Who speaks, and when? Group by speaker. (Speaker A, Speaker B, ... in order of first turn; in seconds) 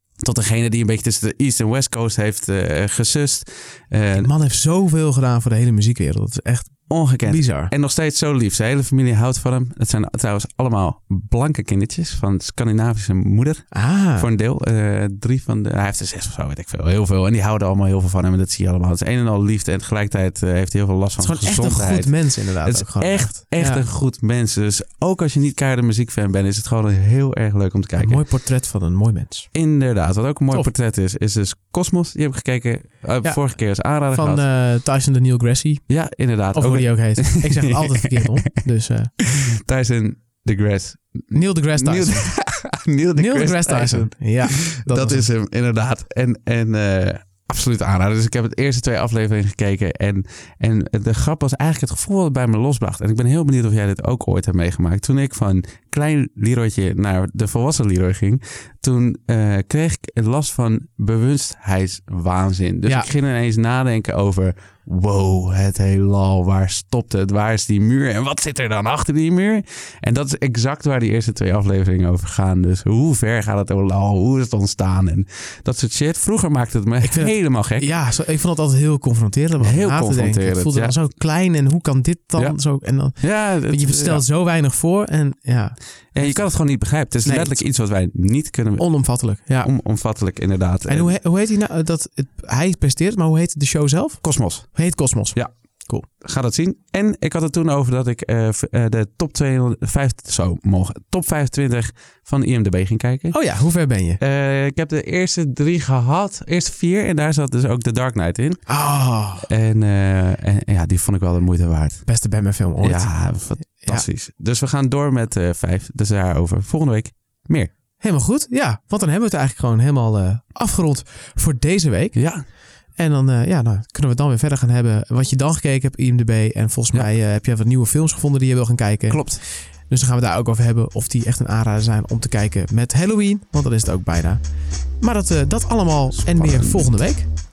Speaker A: 0.2-4.3, 6.9-28.2, 29.5-34.4, 35.9-38.5, 39.2-77.8, 79.6-80.9, 83.2-84.2, 86.1-89.0, 89.6-91.1, 94.2-95.5, 96.0-103.4, 104.2-108.8, 109.4-112.0, 112.8-117.7, 122.1-122.4, 129.1-129.4, 136.2-136.9
Speaker B: 4.2-7.7, 13.7-14.3, 21.2-23.8, 28.0-29.5, 33.2-39.1, 41.3-42.3, 43.1-45.3, 77.0-87.6, 88.8-89.7, 90.9-96.0, 103.3-104.2, 108.7-109.5, 112.0-114.1, 118.0-122.2, 122.9-134.4, 135.0-137.3